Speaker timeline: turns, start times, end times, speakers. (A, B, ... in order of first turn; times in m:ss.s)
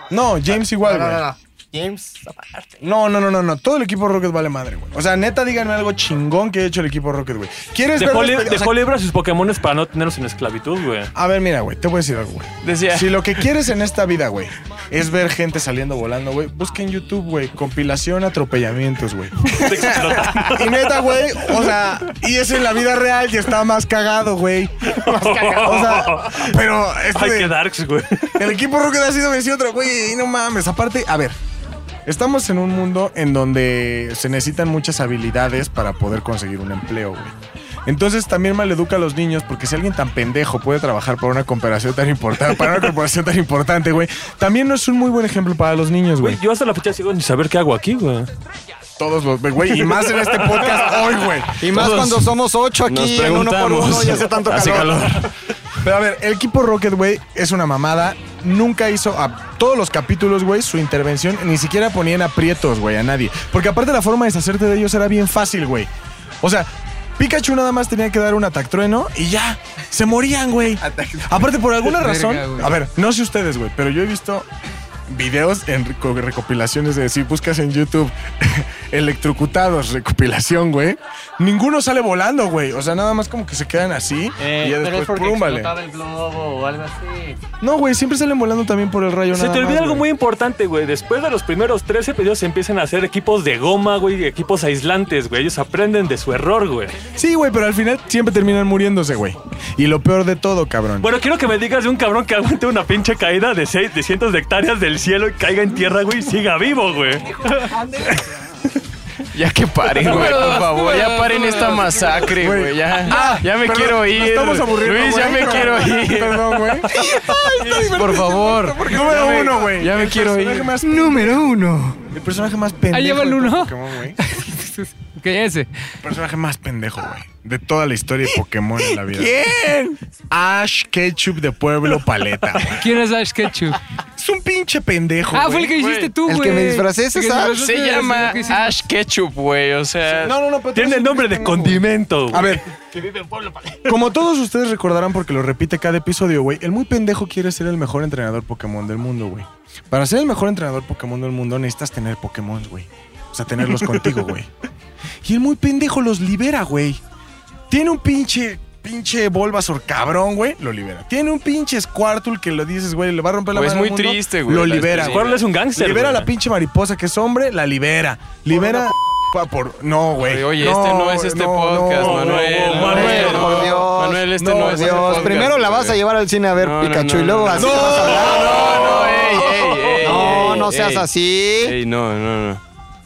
0:00.1-0:01.2 A
0:00.7-0:02.8 B
0:02.8-0:08.8 A
0:08.0-0:11.1 C
0:11.1-0:27.6 A
0:12.6-0:13.2 D
0:19.5-0:20.8 C
0:25.1-0:26.5 C
0:25.4-0:26.2 B
0:27.1-0:28.4 C
0:28.4-0:31.4 A
0:32.1-0:37.4 A
0:37.9-0:46.4 A
0:46.2-0:48.3 C
0:49.0-0:51.6 A
0:51.6-0:54.9 E
0:51.7-0:52.3 D
0:52.9-0:55.3 D
0:54.5-0:55.0 A
0:55.8-1:05.9 A
1:06.4-1:14.5 A
1:11.8-1:12.8 F
1:15.1-1:25.7 A
1:24.4-1:27.4 B
1:27.6-1:30.1 A
1:29.3-1:37.0 C
1:37.2-1:41.1 A
1:41.0-1:47.7 C
1:49.3-1:56.8 D
1:50.0-1:52.3 F
1:50.2-1:50.5 A
1:52.3-2:01.4 A
1:53.1-1:53.4 F
1:57.7-1:58.9 F
1:58.9-2:00.7 D
2:00.8-2:02.1 E
2:02.1-2:04.2 A
2:02.9-2:05.7 F
2:06.0-2:09.7 A
2:09.0-2:10.0 E
2:10.3-2:12.9 A
2:12.8-2:13.8 F
2:14.2-2:15.8 A
2:15.3-2:18.8 F
2:15.7-2:16.1 D
2:16.2-2:17.6 E
2:17.5-2:20.4 D
2:20.1-2:22.6 A
2:20.7-2:22.6 C
2:22.9-2:23.9 B
2:23.8-2:34.5 A
2:35.2-2:37.0 A
2:37.7-2:55.5 A
2:43.5-2:45.4 D
2:44.8-2:46.3 C
2:50.2-2:56.0 D
2:52.0-2:53.5 C
2:52.8-2:59.0 E
2:56.6-3:01.1 D
2:57.5-3:00.4 A
3:00.0-3:01.8 E
3:01.6-3:02.6 D